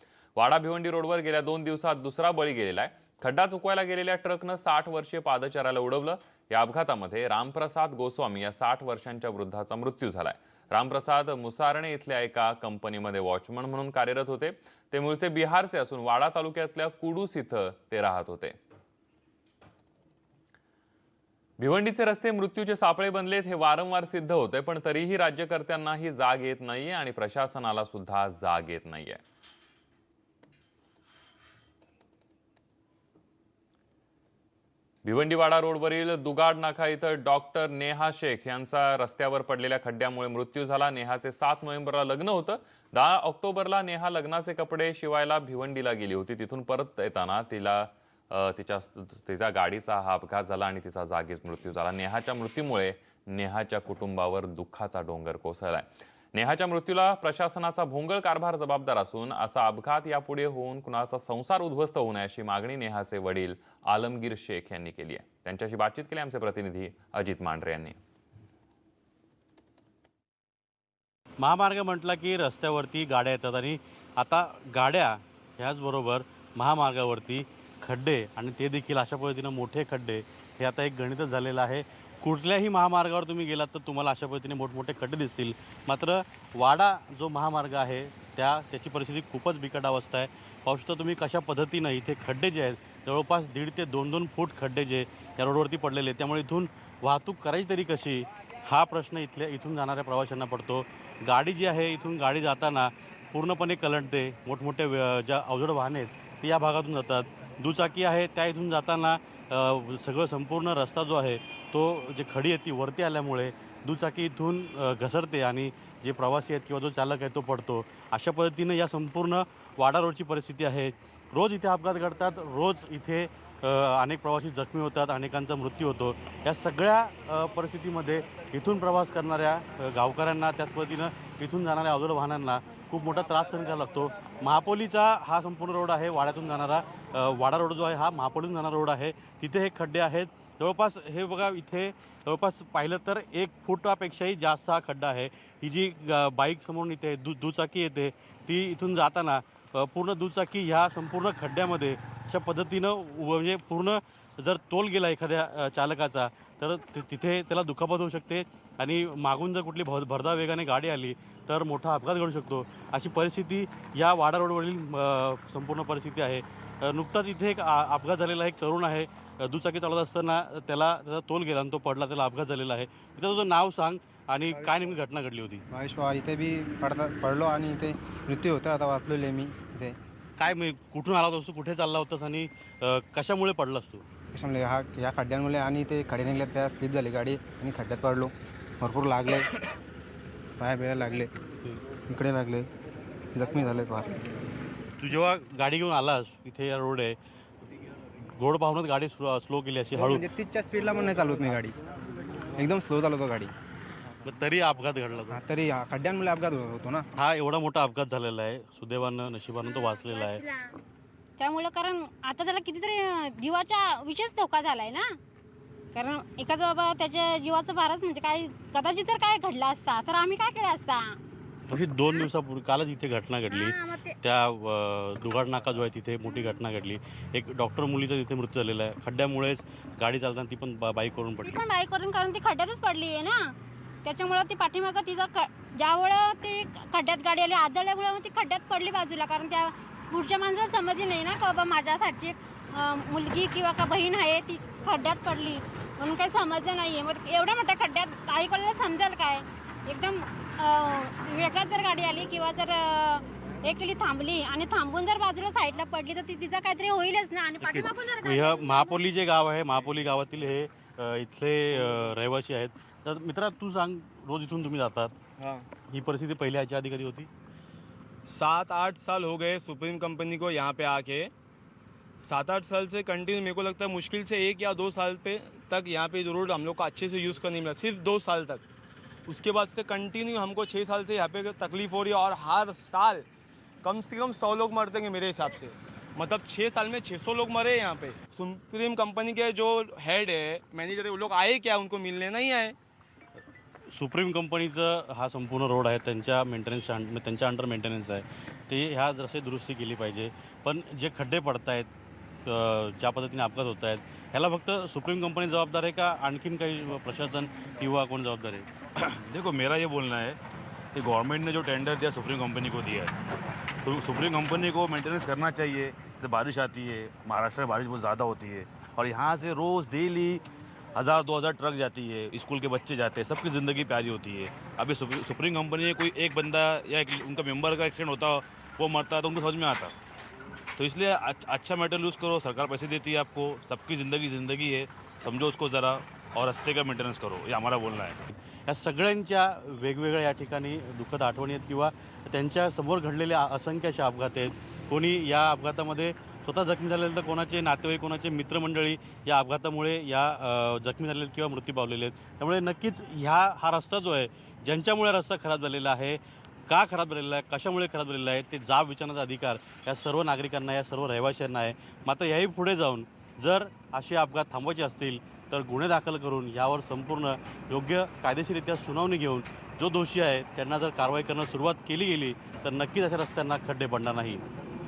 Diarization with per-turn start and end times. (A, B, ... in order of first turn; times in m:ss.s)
0:00.4-0:18.6 A
0:21.6-0:29.2 A
0:35.0-1:08.0 A
1:11.4-2:55.6 B
2:55.7-3:00.0 C
3:00.4-3:04.0 B
3:04.3-3:09.5 C
3:10.6-3:11.3 C
3:12.1-3:12.7 C
3:13.3-3:14.1 C
3:15.0-3:20.2 B
3:19.9-3:21.7 C
3:22.6-3:23.5 C
3:24.2-3:25.4 B
3:25.3-3:27.0 C
3:27.2-3:30.4 B
3:29.6-3:30.8 D
3:31.4-3:35.0 D
3:35.9-3:41.2 D
3:41.7-3:51.6 B
3:43.5-3:44.1 D
3:46.3-3:46.6 D
3:51.4-3:53.5 D
3:54.0-4:19.0 D
4:17.6-4:25.2 B
4:25.4-4:25.7 E
4:25.9-4:27.3 B
4:28.2-4:31.3 E
4:32.2-4:38.6 E
4:39.3-4:43.2 E
4:43.8-4:52.7 E
4:53.9-5:01.9 B
5:02.4-5:08.7 B
5:09.0-5:10.4 F
5:10.9-5:13.1 F
5:13.8-5:29.9 F
5:30.8-5:38.2 F
5:38.6-6:14.4 B